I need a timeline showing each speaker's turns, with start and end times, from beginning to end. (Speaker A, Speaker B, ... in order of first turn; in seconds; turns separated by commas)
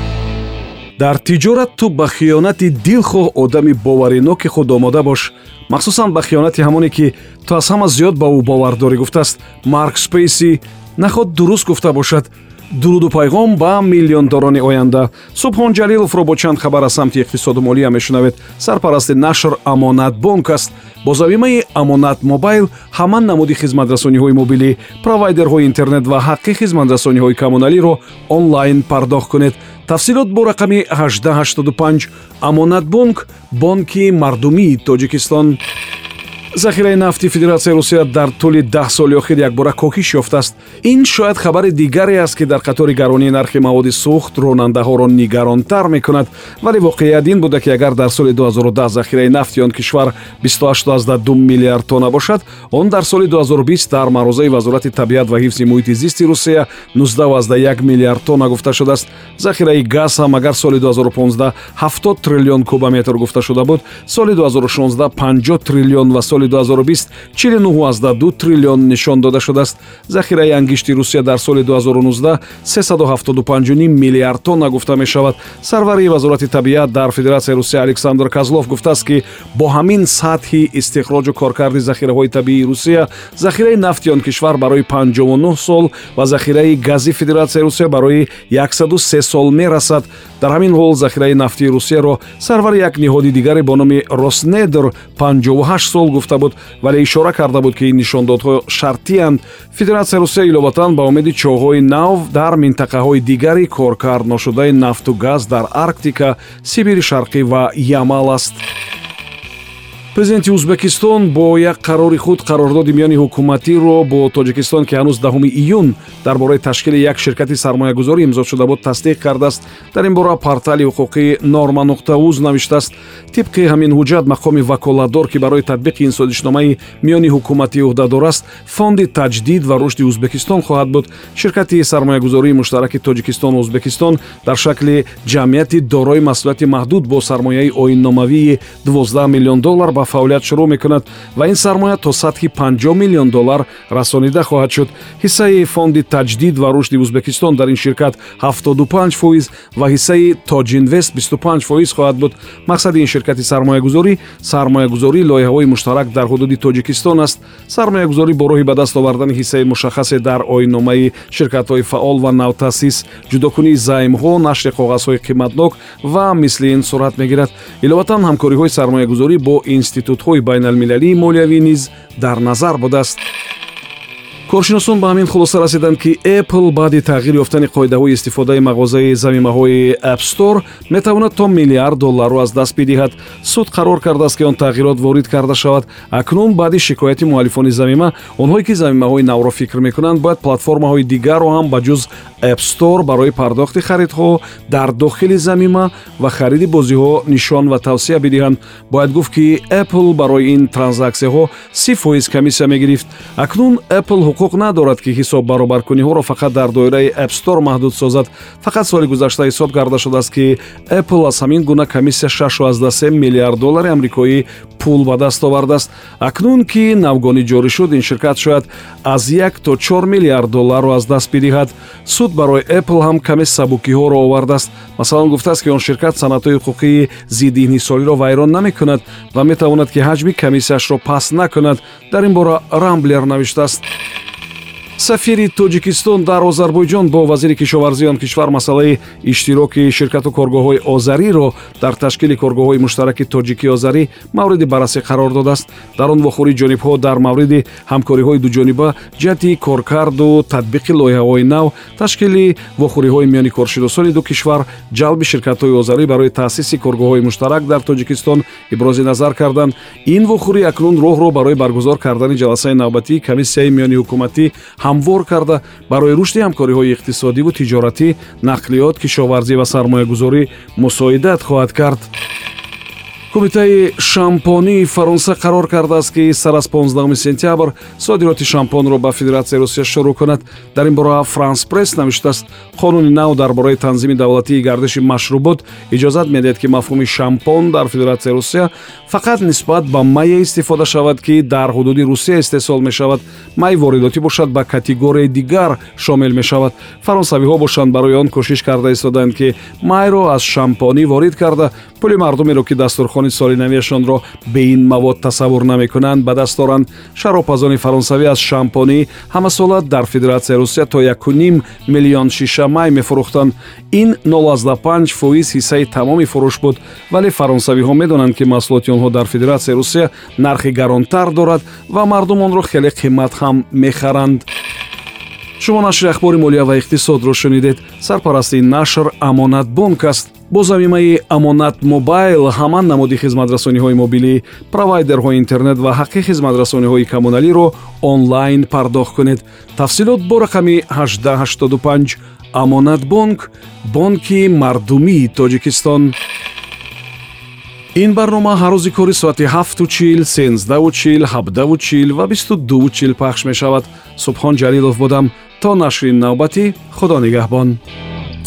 Speaker A: 1.0-35.6, Speaker A: 36.5-108.6, Speaker A: 110.1-173.2, Speaker A: 174.5-233.8, Speaker A: 235.0-272.1, Speaker A: 273.3-324.4, Speaker A: 325.6-346.1, Speaker A: 347.9-357.8